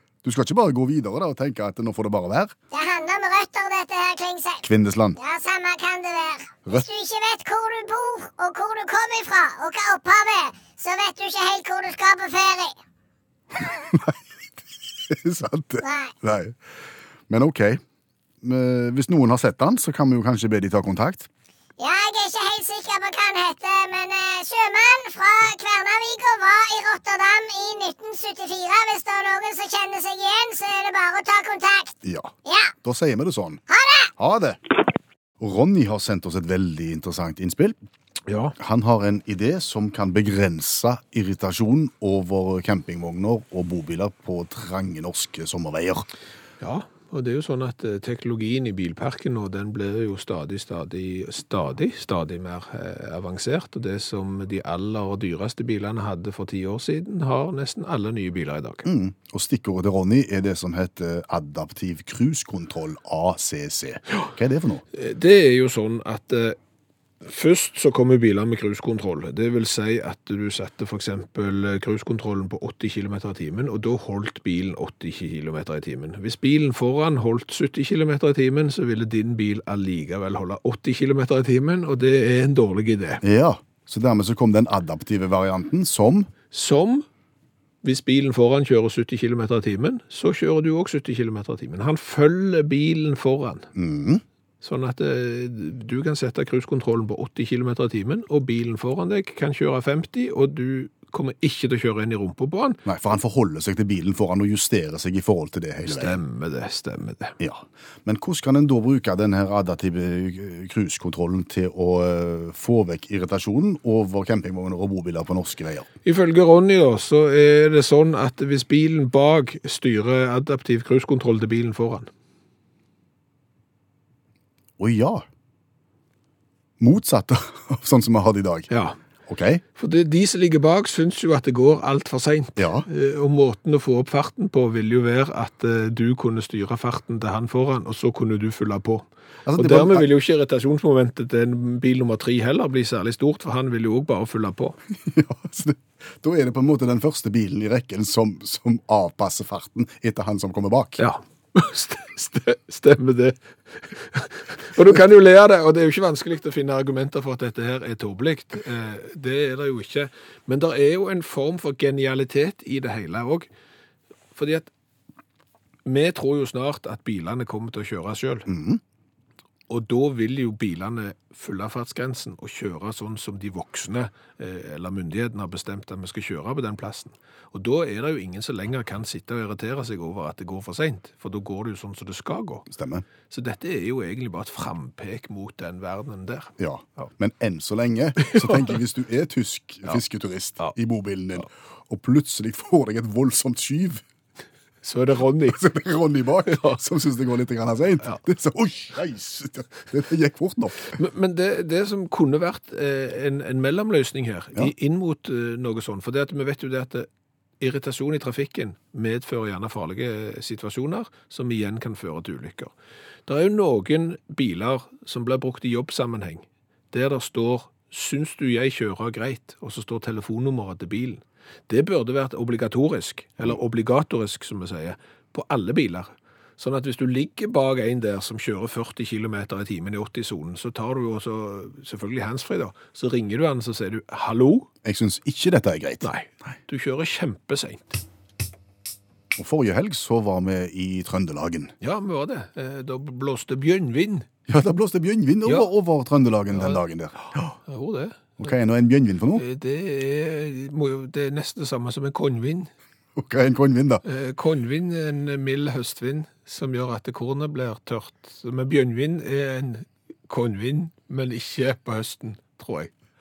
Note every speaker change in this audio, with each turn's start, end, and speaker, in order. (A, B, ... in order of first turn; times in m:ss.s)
0:00.2-0:02.5 A
0:02.7-0:12.7 B
0:04.6-0:05.2 A
0:13.8-0:14.2 A
0:15.1-0:16.6 A
0:15.8-0:16.1 B
0:17.3-0:17.8 A
0:18.4-0:21.3 A
0:21.8-0:32.7 B
0:32.0-0:33.6 A
0:33.7-0:34.1 B
0:34.2-0:34.6 A
0:35.4-0:37.8 A
0:38.3-0:38.5 C
0:38.6-0:46.1 A
0:46.6-0:58.8 C
0:58.8-1:04.8 A
1:04.9-1:06.6 C
1:07.2-1:23.2 C
1:23.2-1:26.3 A
1:26.5-1:27.0 C
1:27.8-1:33.7 C
1:33.7-1:34.2 A
1:34.6-1:42.8 C
1:42.8-1:46.2 A
1:45.8-1:47.3 C
1:47.4-1:55.9 A
1:56.0-2:02.1 C
2:04.8-2:05.2 A
2:06.8-2:08.7 A
2:08.7-2:09.0 C
2:09.3-2:09.6 A
2:09.8-2:24.8 C
2:12.6-2:12.8 A
2:19.4-2:20.1 A
2:24.9-2:31.0 A
2:31.0-2:43.5 C
2:44.3-2:44.7 C
2:45.8-2:48.5 C
2:48.5-2:48.8 A
2:49.7-3:02.7 C
3:02.7-3:03.0 A
3:03.3-3:07.0 C
3:06.6-3:14.0 A
3:08.2-3:08.7 C
3:14.8-3:15.6 C
3:15.5-3:21.0 A
3:16.4-3:16.8 C
3:20.9-3:27.1 C
3:27.6-3:32.7 C
3:33.3-3:54.7 C
3:54.8-3:56.5 A
3:56.0-3:58.0 C
3:59.3-4:01.7 A
4:01.8-4:04.3 C
4:04.5-4:07.6 A
4:06.5-4:06.8 C
4:07.6-4:08.5 C
4:08.4-4:09.4 A
4:09.4-4:12.7 C
4:13.2-4:14.0 A
4:14.0-4:22.9 C